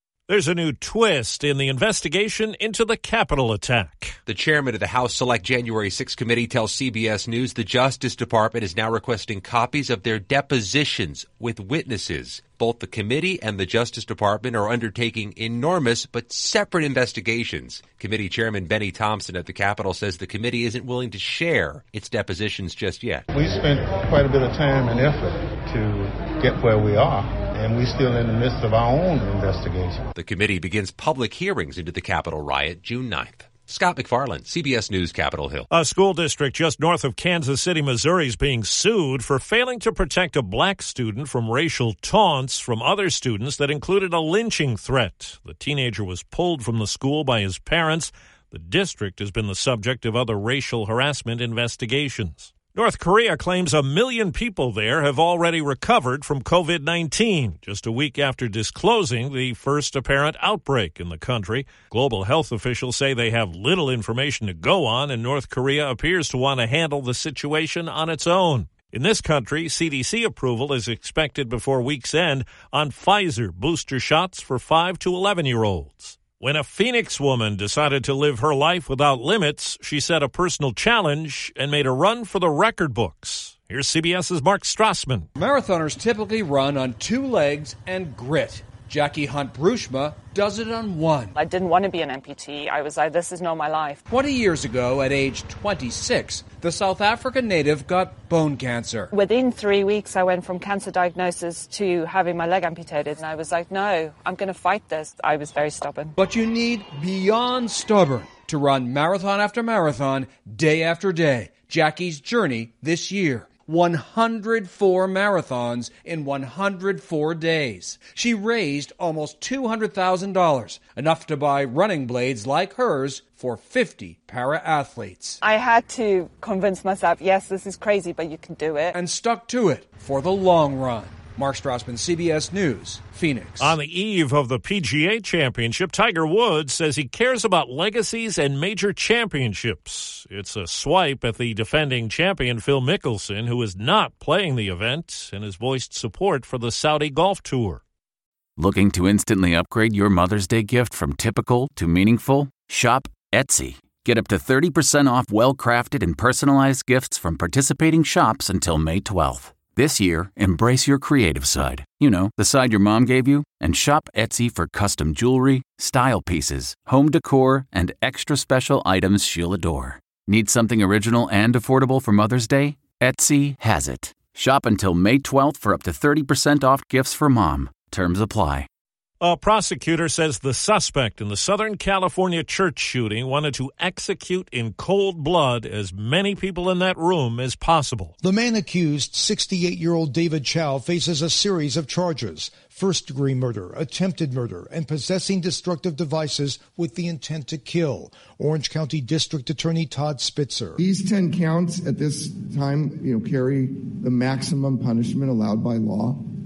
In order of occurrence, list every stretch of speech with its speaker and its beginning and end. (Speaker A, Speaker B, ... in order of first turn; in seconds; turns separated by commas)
Speaker A: 0.3-4.2, Speaker B: 4.2-23.2, Speaker C: 23.3-30.0, Speaker B: 30.1-35.6, Speaker A: 35.7-85.3, Speaker D: 85.3-91.3, Speaker E: 91.4-94.0, Speaker D: 94.1-99.1, Speaker E: 99.2-106.0, Speaker D: 106.2-125.4, Speaker E: 125.5-128.9, Speaker D: 128.9-133.7, Speaker A: 133.6-147.8, Speaker F: 148.6-178.7, Speaker A: 179.2-188.1, Speaker G: 188.2-200.8, Speaker H: 200.8-206.2